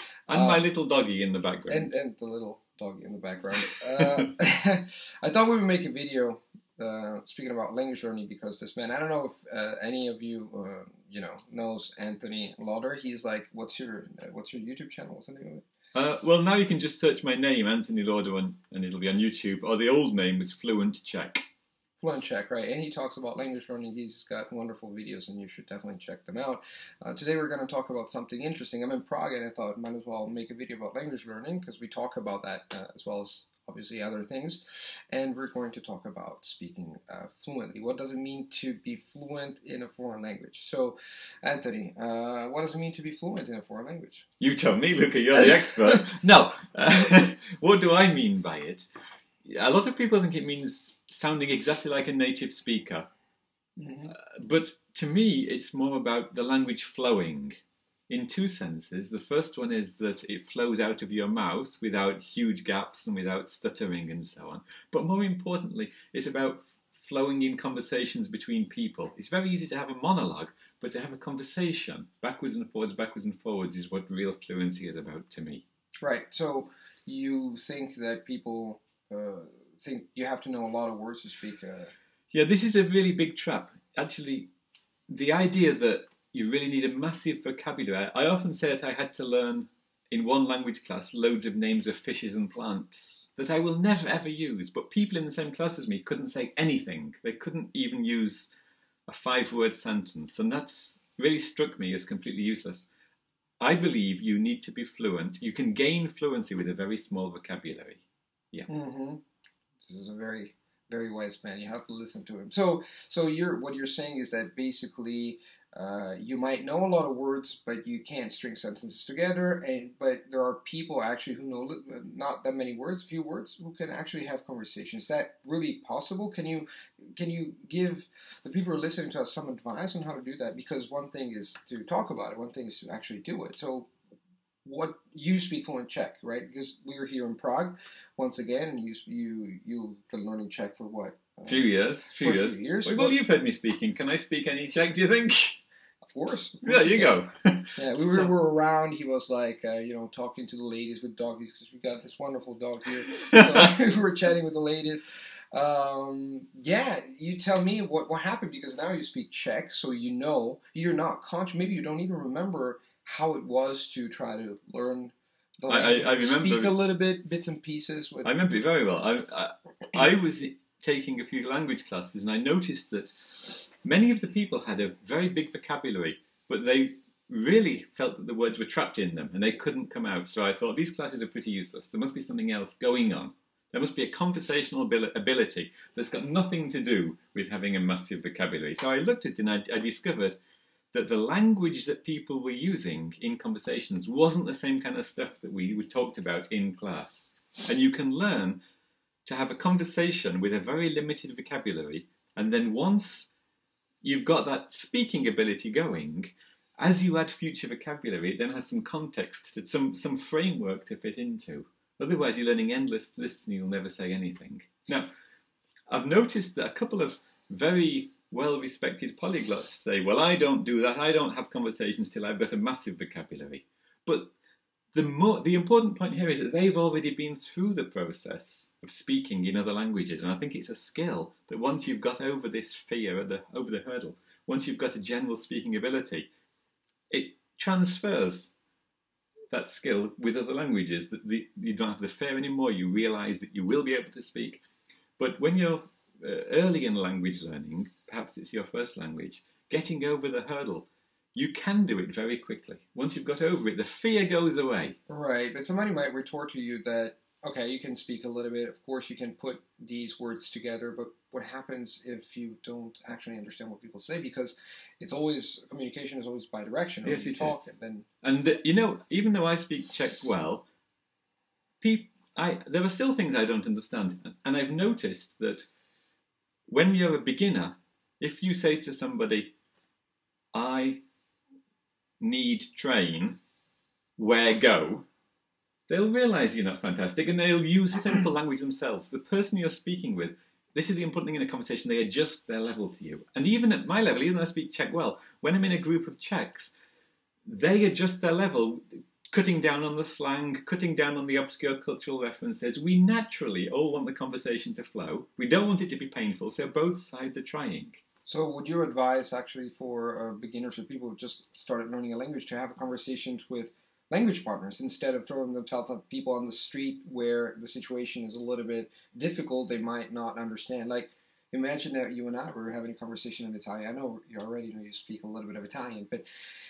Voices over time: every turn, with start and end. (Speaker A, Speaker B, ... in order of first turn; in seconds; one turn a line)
Speaker A: 0.3-2.0
Speaker B: 0.3-0.6
Speaker B: 1.7-15.6
Speaker A: 15.9-21.5
Speaker B: 22.0-44.2
Speaker A: 44.4-48.9
Speaker B: 45.7-46.0
Speaker A: 49.5-53.1
Speaker B: 53.8-54.1
Speaker A: 54.1-57.5
Speaker A: 58.1-75.6
Speaker B: 76.0-81.9
Speaker A: 82.3-84.5
Speaker A: 85.1-98.5
Speaker A: 99.1-102.9
Speaker A: 103.6-108.7
Speaker B: 108.7-109.2
Speaker B: 109.8-133.9
Speaker B: 134.7-143.2
Speaker A: 141.5-145.6
Speaker B: 146.0-147.2
Speaker A: 146.6-148.3
Speaker B: 147.8-168.3
Speaker A: 153.2-153.7
Speaker A: 165.7-166.8
Speaker A: 168.2-190.4
Speaker A: 190.9-198.6
Speaker A: 199.2-203.3
Speaker A: 204.0-215.1
Speaker A: 215.9-224.3
Speaker A: 224.9-236.3
Speaker A: 237.1-238.6
Speaker A: 239.5-244.6
Speaker A: 245.2-255.0
Speaker B: 255.1-268.1
Speaker A: 267.0-270.7
Speaker A: 271.8-275.7
Speaker A: 276.7-279.5
Speaker A: 280.5-281.0
Speaker A: 282.2-283.4
Speaker A: 284.2-285.1
Speaker A: 285.9-296.7
Speaker A: 297.4-308.0
Speaker B: 308.3-326.2